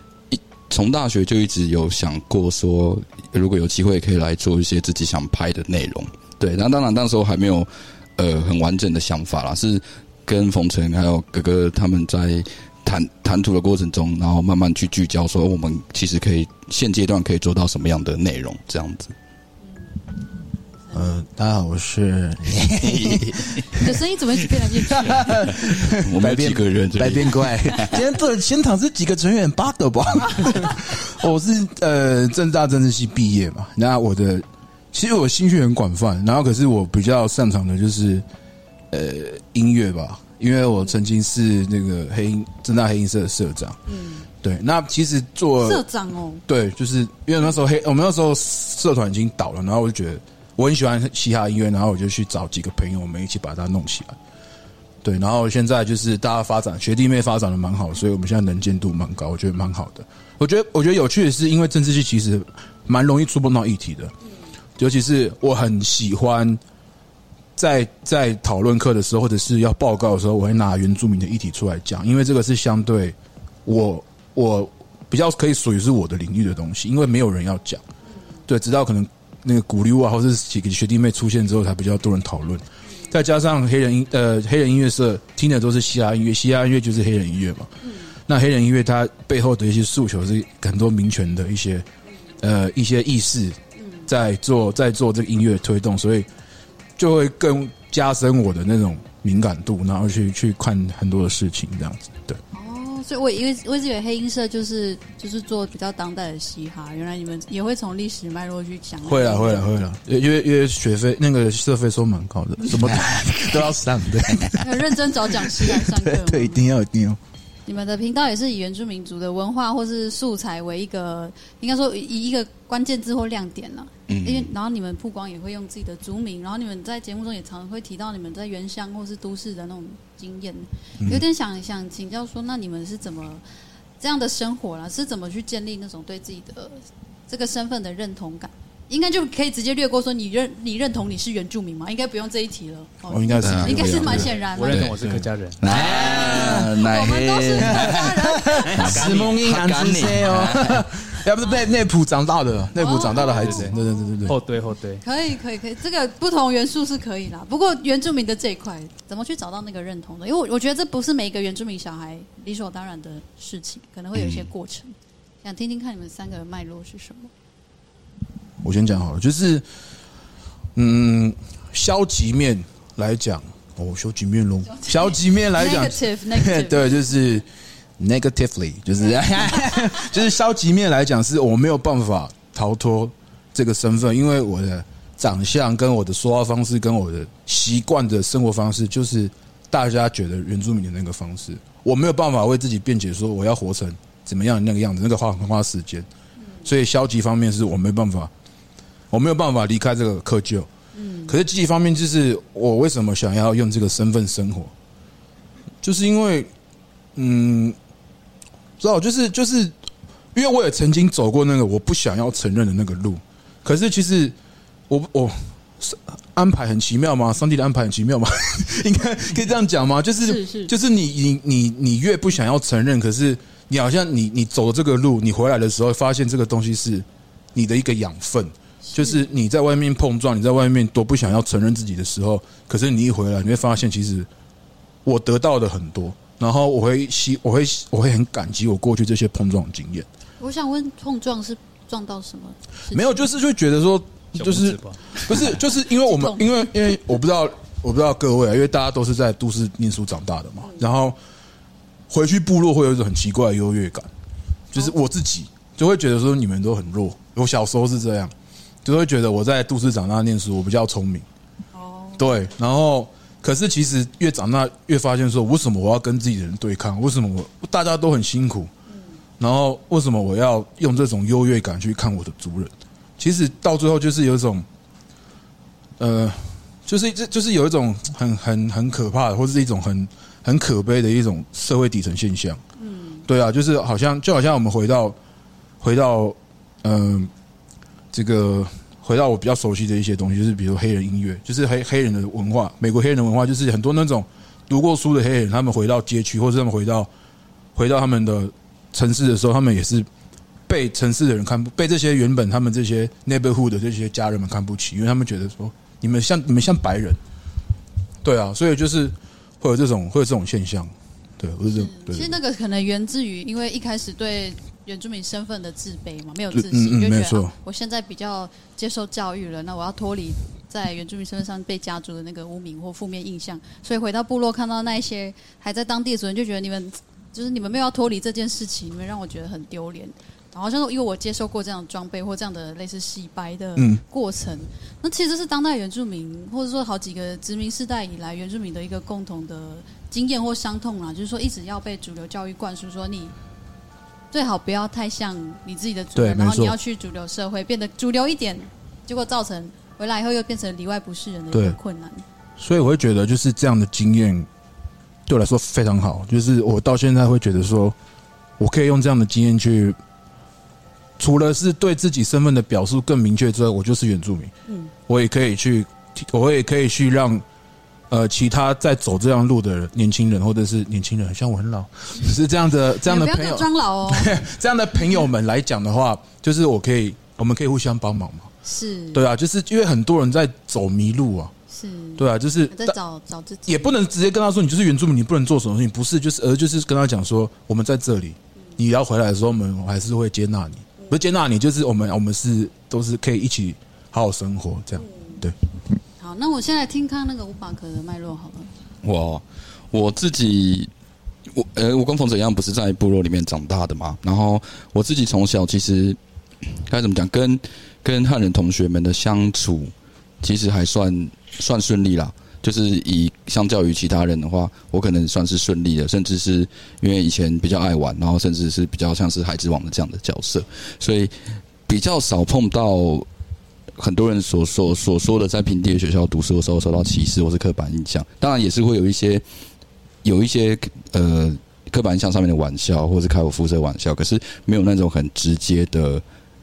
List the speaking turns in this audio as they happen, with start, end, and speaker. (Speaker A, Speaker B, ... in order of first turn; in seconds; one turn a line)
Speaker A: 0.3-19.1
Speaker B: 20.9-23.8
Speaker A: 22.8-23.7
Speaker C: 23.7-25.5
Speaker B: 24.8-38.2
Speaker A: 25.5-28.0
Speaker C: 30.4-30.7
Speaker B: 38.9-43.8
Speaker C: 43.9-44.3
Speaker B: 44.4-45.8
Speaker C: 45.6-46.4
Speaker B: 46.5-54.2
Speaker B: 55.0-64.1
Speaker B: 64.8-66.6
Speaker B: 67.6-77.8
Speaker B: 78.5-87.7
Speaker C: 87.8-88.1
Speaker B: 88.3-91.9
Speaker B: 92.4-96.3
Speaker C: 93.8-94.1
Speaker B: 97.0-102.4
Speaker C: 102.5-109.8
Speaker B: 109.0-117.2
Speaker C: 114.6-116.7
Speaker C: 117.7-133.4
Speaker A: 124.1-124.5
Speaker C: 134.0-144.9
Speaker B: 143.1-144.3
Speaker A: 143.4-145.1
Speaker D: 144.0-145.6
Speaker B: 145.0-146.7
Speaker A: 145.6-150.9
Speaker C: 145.7-148.9
Speaker B: 147.7-154.4
Speaker D: 148.8-149.4
Speaker C: 152.8-153.9
Speaker D: 153.1-153.7
Speaker D: 154.2-155.0
Speaker C: 155.0-167.3
Speaker A: 164.2-164.4
Speaker B: 168.6-169.6
Speaker B: 170.8-177.5
Speaker C: 174.8-177.1
Speaker B: 178.0-196.1
Speaker B: 196.6-198.3
Speaker B: 199.1-200.7
Speaker C: 200.9-201.4
Speaker B: 201.3-204.7
Speaker B: 205.8-206.5
Speaker B: 207.2-207.8
Speaker B: 208.8-209.8
Speaker B: 210.3-214.3
Speaker B: 214.9-234.3
Speaker C: 220.2-220.7
Speaker C: 228.8-229.3
Speaker B: 235.1-240.1
Speaker C: 240.4-243.2
Speaker B: 242.9-251.2
Speaker D: 244.4-245.4
Speaker C: 246.0-246.5
Speaker B: 252.1-254.1
Speaker B: 254.7-258.3
Speaker B: 258.8-261.3
Speaker C: 261.7-262.4
Speaker B: 262.2-268.7
Speaker C: 268.9-269.2
Speaker B: 269.4-274.7
Speaker B: 276.0-282.6
Speaker C: 282.8-283.3
Speaker B: 283.3-285.2
Speaker B: 285.8-287.3
Speaker B: 288.1-297.1
Speaker B: 297.8-300.1
Speaker B: 300.7-307.2
Speaker B: 308.2-312.4
Speaker C: 311.7-343.4
Speaker B: 316.5-317.5
Speaker B: 333.8-334.0
Speaker C: 344.3-352.2
Speaker B: 346.1-346.8
Speaker B: 351.5-351.8
Speaker B: 352.6-354.5
Speaker B: 355.3-358.0
Speaker B: 358.6-360.0
Speaker B: 361.2-364.5
Speaker C: 364.7-364.9
Speaker B: 365.1-367.4
Speaker B: 368.1-378.5
Speaker C: 373.0-374.4
Speaker C: 378.6-379.2
Speaker B: 379.1-381.5
Speaker C: 381.7-384.0
Speaker B: 382.2-383.0
Speaker B: 383.7-395.6
Speaker C: 395.0-395.4
Speaker C: 396.2-398.7
Speaker A: 399.0-400.9
Speaker A: 401.5-406.2
Speaker A: 406.8-423.3
Speaker A: 424.0-429.4
Speaker A: 430.2-436.2